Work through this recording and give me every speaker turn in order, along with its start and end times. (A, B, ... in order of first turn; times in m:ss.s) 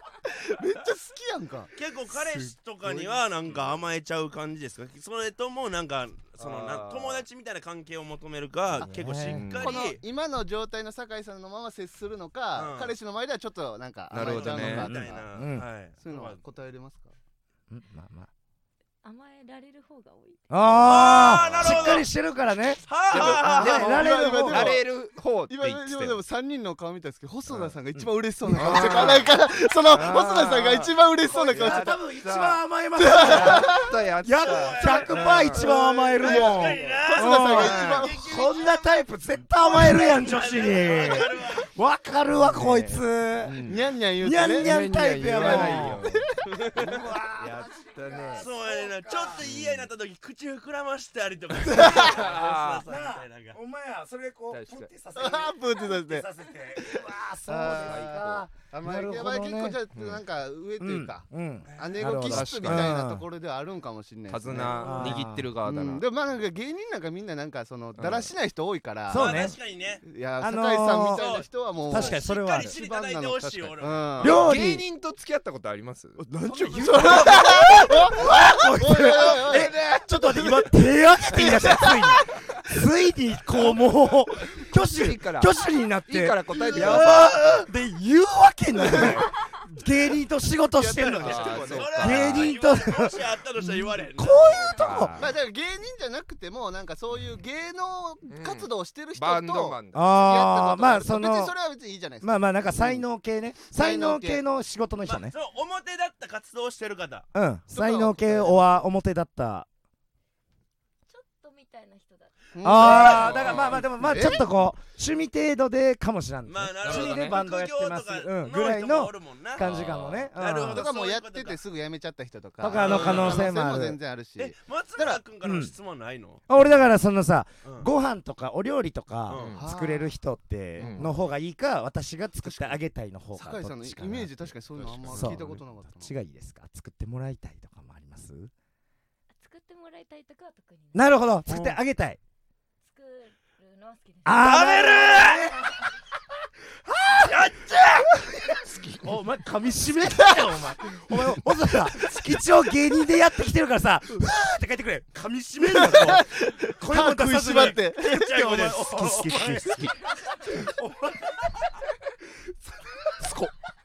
0:00.3-0:03.2 A
0:01.8-0:10.0 B
0:06.4-0:07.2 C
0:08.8-0:09.4 D
0:09.4-0:09.7 C
0:09.6-0:15.3 A
0:12.6-0:13.0 B
0:14.1-0:14.9 C
0:14.2-0:16.4 B
0:14.7-0:15.7 D
0:16.0-0:17.1 A
0:17.7-0:18.3 D
0:19.0-0:20.8 E
0:20.5-0:24.8 D
0:20.7-0:21.8 C
0:20.8-0:22.1 B
0:22.8-0:24.0 B
0:23.1-0:26.2 C
0:23.2-0:24.9 A
0:25.5-0:32.0 A
0:27.5-0:35.8 C
0:28.6-0:29.2 D
0:31.2-0:49.5 D
0:33.0-0:34.0 A
0:34.4-0:39.0 B
0:35.6-0:38.4 A
0:37.5-0:38.1 C
0:39.6-0:41.7 B
0:42.3-0:43.8 C
0:43.6-0:46.5 A
0:44.4-0:46.3 C
0:46.5-0:47.0 B
0:47.4-0:48.5 C
0:48.3-0:53.6 B
0:49.4-0:49.9 C
0:51.8-0:52.8 C
0:51.8-0:52.2 D
0:52.8-0:59.8 D
0:54.5-0:54.9 C
0:55.2-0:56.3 A
0:56.8-1:14.5 A
0:57.8-0:58.3 C
0:59.9-1:00.2 C
1:00.8-1:03.2 D
1:01.7-1:02.0 B
1:02.2-1:03.0 C
1:04.3-1:06.1 C
1:04.6-1:05.1 B
1:04.7-1:05.5 D
1:08.0-1:08.3 C
1:09.1-1:09.6 D
1:09.1-1:10.0 B
1:10.4-1:11.3 D
1:11.0-1:14.1 B
1:11.9-1:12.8 D
1:14.2-1:14.8 D
1:14.2-1:16.2 C
1:16.2-1:20.7 A
1:16.4-1:35.2 D
1:16.8-1:18.2 B
1:21.3-1:22.2 A
1:24.9-1:27.4 C
1:26.7-1:27.6 B
1:28.9-1:29.2 A
1:30.7-1:32.3 A
1:31.2-1:32.5 C
1:31.7-1:34.8 B
1:34.8-1:35.3 C
1:35.2-1:43.1 A
1:38.3-1:40.3 C
1:39.9-1:41.6 D
1:42.2-1:45.3 D
1:43.7-1:44.4 A
1:45.0-1:47.3 B
1:47.3-1:49.7 D
1:47.7-1:48.8 A
1:51.1-1:53.2 E
1:52.6-1:54.4 A
1:52.6-2:00.9 D
1:52.8-1:53.8 B
1:56.5-2:01.6 B
1:56.8-1:57.4 C
1:59.6-2:00.3 C
2:00.7-2:05.2 A
2:02.6-2:04.0 D
2:02.7-2:03.5 B
2:04.4-2:06.4 B
2:05.4-2:05.7 D
2:06.5-2:14.5 D
2:07.6-2:07.9 B
2:09.3-2:09.6 B
2:09.3-2:09.6 C
2:09.6-2:10.2 A
2:10.8-2:11.1 C
2:10.8-2:11.1 A
2:12.5-2:12.7 A
2:13.4-2:16.1 A
2:14.8-2:15.6 C
2:15.1-2:18.5 D
2:19.3-2:21.2 E
2:20.9-2:22.2 D
2:21.5-2:21.8 B
2:22.8-2:24.6 E
2:24.2-2:25.7 D
2:24.4-2:25.5 B
2:25.5-2:25.9 E
2:26.8-2:27.4 D
2:27.2-2:28.1 B
2:28.1-2:43.5 D
2:28.6-2:29.1 B
2:30.2-2:30.4 A
2:35.6-2:38.4 A
2:37.4-2:39.9 B